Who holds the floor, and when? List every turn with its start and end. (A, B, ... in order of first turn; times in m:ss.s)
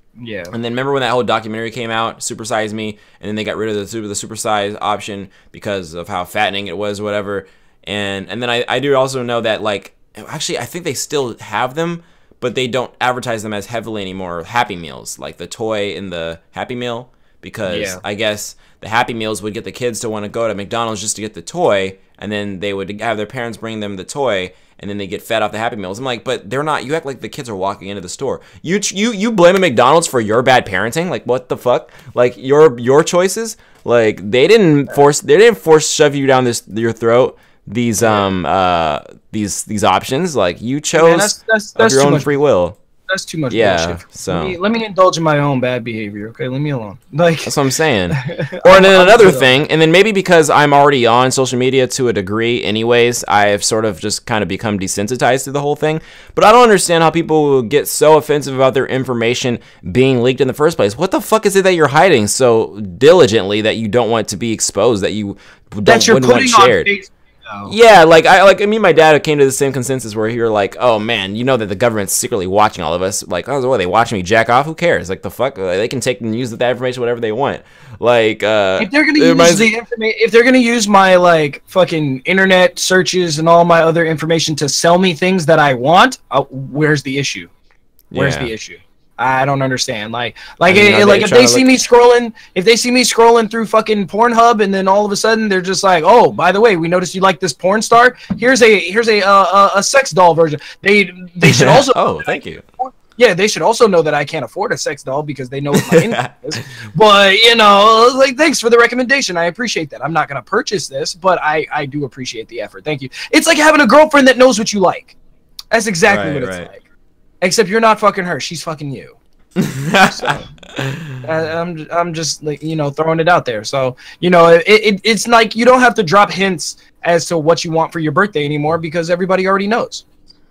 0:00.2-0:00.5 A
0:00.5-0:42.8 B
0:17.7-0:18.0 A
0:38.0-0:38.2 A
0:41.0-0:42.3 A
0:43.1-0:47.5 A
0:43.5-0:44.6 B
0:47.4-1:06.9 B
0:48.1-0:49.5 A
1:05.8-1:07.7 A
1:07.6-1:19.7 B
1:18.8-1:27.5 A
1:28.1-1:28.5 B
1:28.1-1:55.2 A
1:30.7-1:31.7 B
1:41.4-1:42.6 B
1:45.7-1:46.6 B
1:55.7-1:56.8 A
1:56.1-1:56.7 B
1:57.4-1:59.2 A
1:59.6-2:01.2 B
2:00.1-2:00.5 A
2:01.2-2:10.0 A